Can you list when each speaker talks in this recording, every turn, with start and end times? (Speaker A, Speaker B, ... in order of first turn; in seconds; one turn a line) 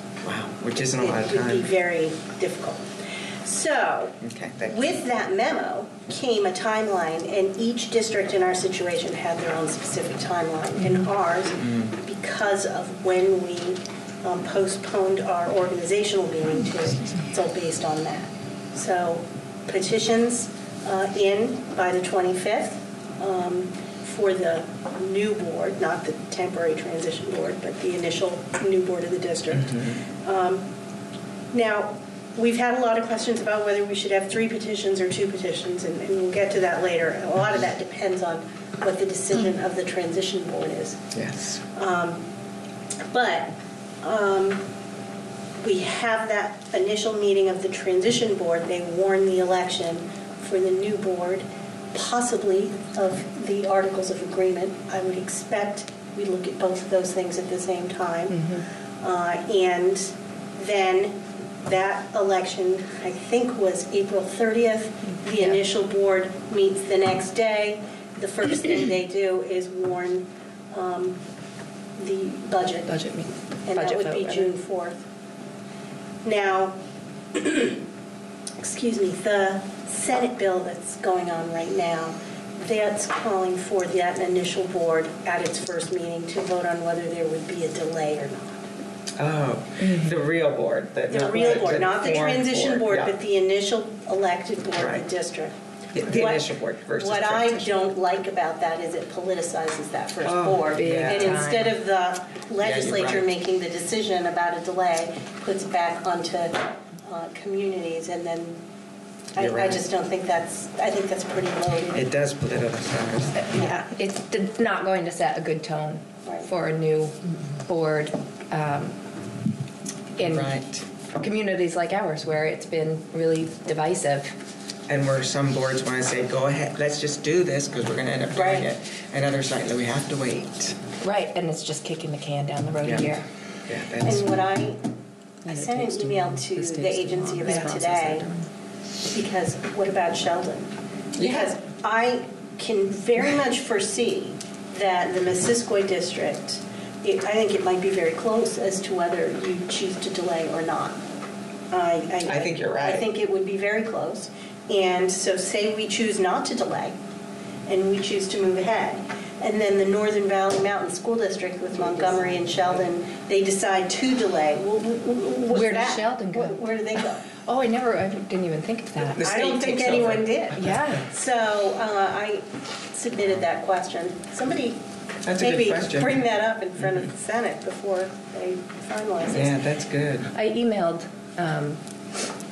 Speaker A: 0.2-1.7
Speaker B: 1.0-2.8
Speaker B: 3.4-30.7
Speaker A: 4.2-4.9
Speaker A: 11.6-11.9
Speaker B: 31.5-41.0
Speaker A: 41.1-41.5
Speaker B: 41.6-42.2
Speaker B: 43.1-44.7
Speaker B: 45.6-71.2
Speaker C: 58.3-58.6
Speaker C: 65.3-65.6
Speaker B: 72.0-72.9
Speaker C: 72.9-74.5
Speaker B: 73.7-75.0
Speaker B: 76.2-76.8
Speaker B: 77.3-77.8
Speaker B: 78.6-88.6
Speaker A: 89.2-93.1
Speaker C: 89.8-90.1
Speaker B: 91.1-108.6
Speaker A: 94.8-95.0
Speaker A: 95.9-97.7
Speaker A: 100.2-101.4
Speaker C: 100.7-101.8
Speaker A: 102.6-103.3
Speaker B: 109.3-112.0
Speaker A: 109.4-109.8
Speaker A: 111.9-113.5
Speaker C: 113.4-117.1
Speaker B: 113.5-113.8
Speaker C: 117.7-119.0
Speaker C: 120.2-120.5
Speaker A: 120.2-120.8
Speaker C: 121.1-124.3
Speaker A: 124.9-130.8
Speaker B: 128.3-128.7
Speaker C: 131.0-133.2
Speaker A: 132.8-133.1
Speaker A: 133.7-134.3
Speaker B: 134.0-134.8
Speaker C: 135.4-138.5
Speaker B: 135.4-138.3
Speaker B: 139.1-151.0
Speaker A: 141.2-141.5
Speaker B: 151.7-156.9
Speaker A: 152.2-153.1
Speaker B: 157.7-167.3
Speaker C: 165.5-166.6
Speaker C: 167.4-169.2
Speaker A: 169.2-170.3
Speaker B: 169.2-174.8
Speaker C: 170.5-171.0
Speaker A: 175.2-176.1
Speaker B: 175.3-179.6
Speaker A: 179.3-180.3
Speaker C: 180.3-181.8